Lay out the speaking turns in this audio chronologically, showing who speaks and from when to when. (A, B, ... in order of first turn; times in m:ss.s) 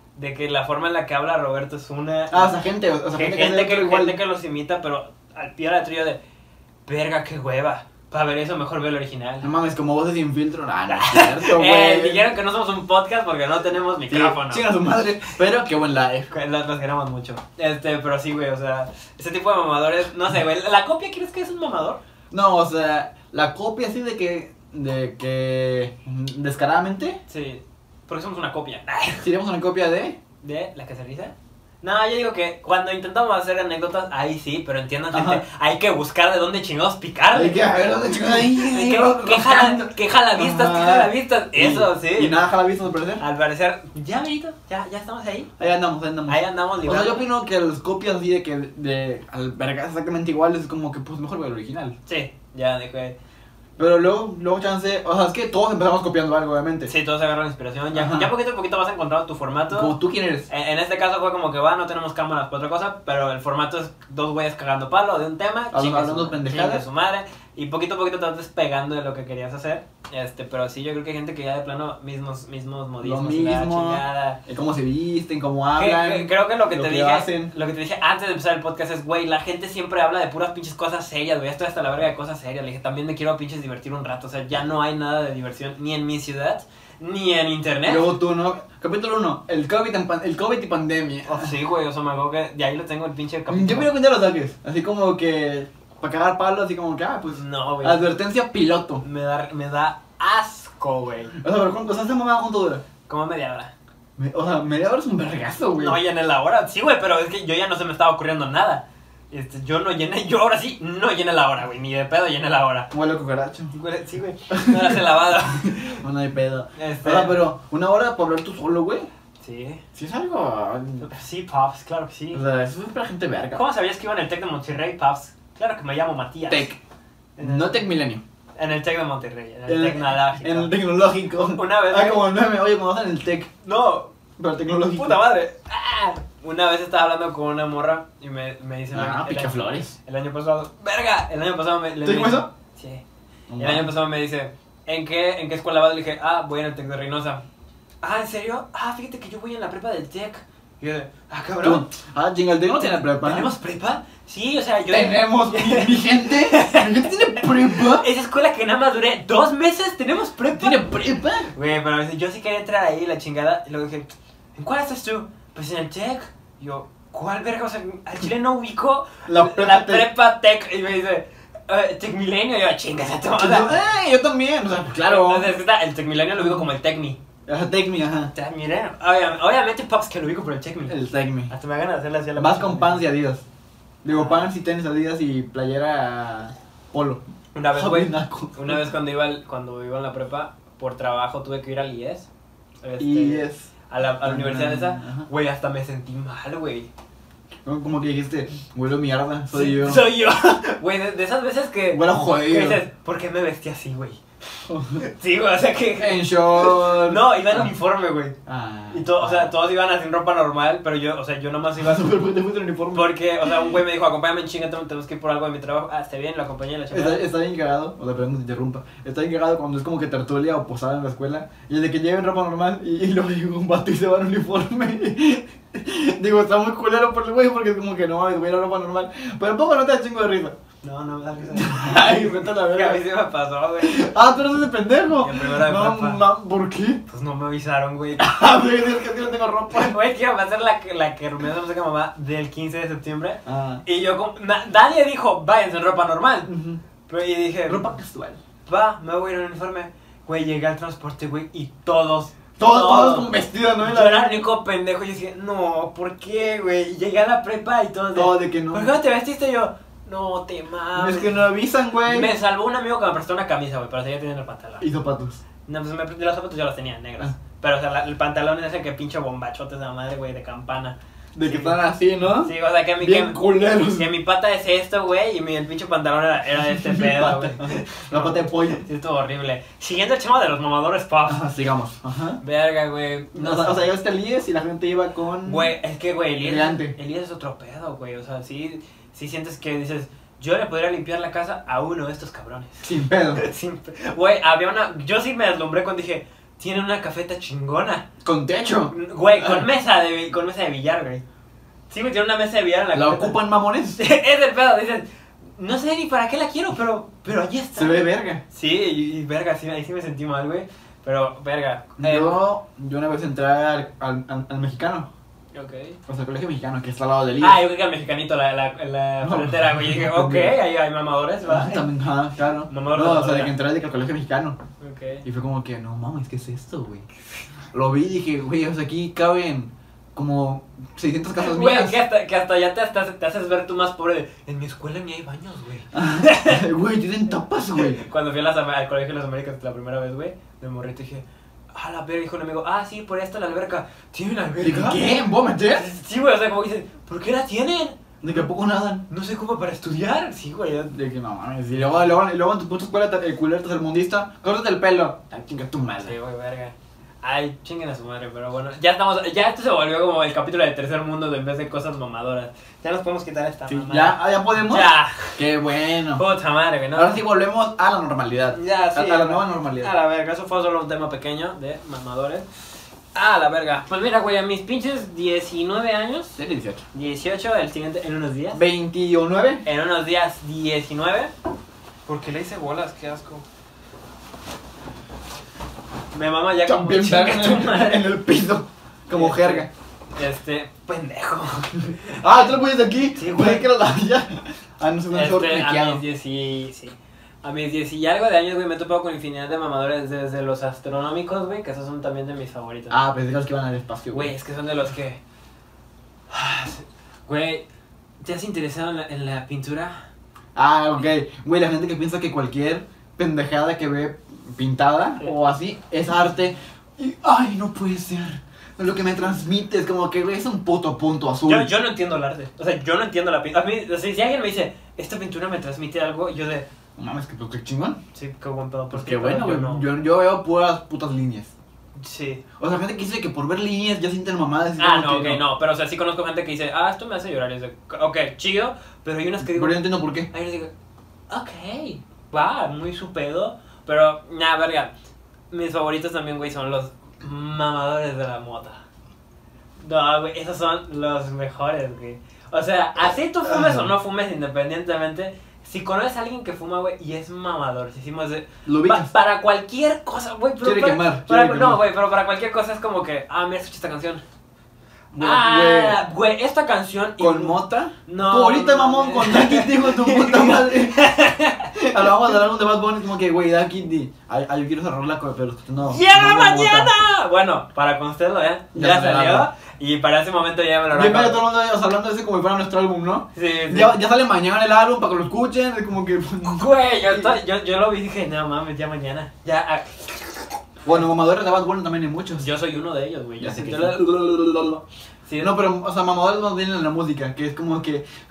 0:00.2-0:02.5 A
0:02.3-0:04.2 B
0:03.1-0:06.2 A
0:06.8-0:09.5 A
0:09.4-0:12.2 B
0:10.9-0:14.7 A
0:14.1-0:16.3 B
0:16.3-0:22.0 A
0:22.3-0:27.2 B
0:27.3-0:29.3 A
0:29.2-0:30.2 B
0:30.4-0:42.4 A
0:35.1-0:35.4 B
0:37.3-0:43.2 B
0:43.2-0:45.5 A
0:45.6-0:51.9 B
0:46.3-0:47.2 A
0:52.0-0:53.1 A
0:53.8-0:56.9 B
0:56.9-0:59.9 A
0:57.9-0:58.3 B
0:59.7-1:00.5 B
1:00.5-1:14.4 A
1:05.7-1:06.8 B
1:13.0-1:17.5 B
1:15.8-1:28.1 A
1:27.8-1:31.5 B
1:31.2-1:33.9 A
1:33.5-1:39.0 B
1:37.3-1:38.1 A
1:39.0-1:41.3 A
1:41.4-1:42.8 B
1:43.1-1:43.7 A
1:44.2-1:46.0 B
1:45.8-1:52.9 A
1:52.9-1:53.7 B
1:53.7-1:56.0 A
1:54.5-1:59.1 B
1:56.8-1:57.4 A
1:59.4-1:59.8 A
1:59.9-2:01.1 B
2:01.0-2:02.4 A
2:02.3-2:03.6 B
2:03.5-2:06.7 A
2:06.5-2:06.8 B
2:07.4-2:07.8 A
2:07.4-2:08.2 B
2:08.6-2:10.7 A
2:09.7-2:13.5 B
2:11.3-2:12.3 A
2:13.6-2:14.1 A
2:14.4-2:15.3 B
2:14.9-2:23.0 A
2:18.9-2:19.9 B
2:22.0-2:22.5 B
2:23.5-2:23.9 B
2:23.6-2:27.4 A
2:28.0-2:31.9 A
2:31.6-2:33.5 B
2:32.8-2:40.9 A
2:34.9-2:38.1 B
2:40.5-2:41.5 B
2:41.5-2:53.8 A
2:49.2-2:50.1 B
2:53.3-2:55.5 B
2:55.0-2:57.2 A
2:56.4-2:56.6 B
2:57.4-2:58.3 B
2:58.3-3:03.0 A
3:00.9-3:01.5 B
3:02.4-3:03.4 B
3:04.0-3:08.9 B
3:04.1-3:04.5 A
3:07.5-3:12.3 A
3:12.8-3:16.9 A
3:13.0-3:13.7 B
3:14.2-3:15.3 B
3:17.6-3:20.0 B
3:19.5-3:24.2 A
3:21.9-3:22.8 B
3:24.7-3:25.0 B
3:24.9-3:28.4 A
3:26.0-3:27.7 B
3:28.4-3:29.6 B
3:28.9-3:32.1 A
3:31.8-3:33.7 B
3:32.9-3:37.2 A
3:36.9-3:50.6 B
3:50.8-3:54.1 A
3:51.5-3:53.0 B
3:53.8-3:57.0 B
3:55.2-3:56.2 A
3:57.1-3:58.4 A
3:58.2-4:00.0 B
3:59.7-4:06.5 A
4:03.4-4:03.8 B
4:06.4-4:06.8 B
4:07.1-4:07.9 A
4:07.6-4:08.4 B
4:08.6-4:21.4 A
4:12.6-4:14.4 B
4:18.1-4:18.9 B
4:21.0-4:22.3 B
4:22.0-4:24.9 A
4:24.8-4:25.4 B
4:25.6-4:31.8 A
4:31.3-4:34.1 B
4:32.4-4:41.4 A
4:36.7-4:38.8 B
4:41.2-4:42.4 B
4:42.4-4:43.9 A
4:43.3-4:45.7 B
4:45.4-4:58.0 A
4:46.4-4:46.9 B
4:52.8-4:53.4 B
4:58.2-4:59.6 B
4:58.9-5:01.2 A
5:01.9-5:03.4 A
5:02.9-5:04.0 B
5:04.0-5:12.4 A
5:07.8-5:08.4 B
5:12.0-5:15.1 B
5:15.5-5:16.0 A
5:16.1-5:17.6 B
5:17.4-5:21.8 A
5:19.2-5:20.6 B
5:21.4-5:24.6 B
5:22.7-5:23.5 A
5:24.8-5:25.2 A
5:25.2-5:27.1 B
5:27.7-5:32.0 B
5:31.4-5:36.6 A
5:35.9-5:38.0 B
5:37.8-5:48.4 A
5:44.6-5:45.9 B
5:48.2-5:49.0 B
5:49.1-5:50.9 A
5:50.9-5:56.1 B
5:56.0-6:05.4 A
6:03.7-6:06.2 B
6:06.1-6:07.2 A
6:06.9-6:09.9 B
6:08.5-6:12.4 A
6:13.1-6:16.4 A
6:16.4-6:16.8 B
6:16.9-6:18.6 A
6:18.5-6:19.6 B
6:19.6-6:21.3 A
6:22.1-6:23.4 A
6:26.1-6:28.0 A
6:26.6-6:29.7 B
6:29.1-6:32.2 A
6:32.1-6:36.0 B
6:33.1-6:33.7 A
6:35.1-6:43.0 A
6:42.9-6:44.3 B
6:44.1-6:45.2 A
6:46.3-6:47.6 A
6:48.2-6:50.0 A
6:50.5-7:01.7 B
7:01.4-7:06.6 A
7:07.0-7:08.0 B
7:08.1-7:09.9 A
7:08.9-7:11.5 B
7:12.0-7:12.4 A
7:12.6-7:15.4 B
7:14.8-7:20.7 A
7:19.4-7:20.3 B
7:21.3-7:24.9 A
7:25.5-7:28.8 A
7:29.8-7:44.2 A
7:33.4-7:33.9 B
7:38.6-7:39.1 B
7:40.6-7:41.8 B
7:45.1-7:46.0 B
7:45.2-7:51.7 A
7:47.2-7:51.1 B
7:51.7-7:56.9 B
7:55.8-8:01.4 A
7:58.7-7:59.5 B
8:00.9-8:07.3 B
8:03.3-8:04.0 A
8:06.4-8:11.0 A
8:10.8-8:12.5 B
8:12.4-8:14.0 A
8:13.4-8:14.8 B
8:15.3-8:15.6 A
8:15.4-8:18.0 B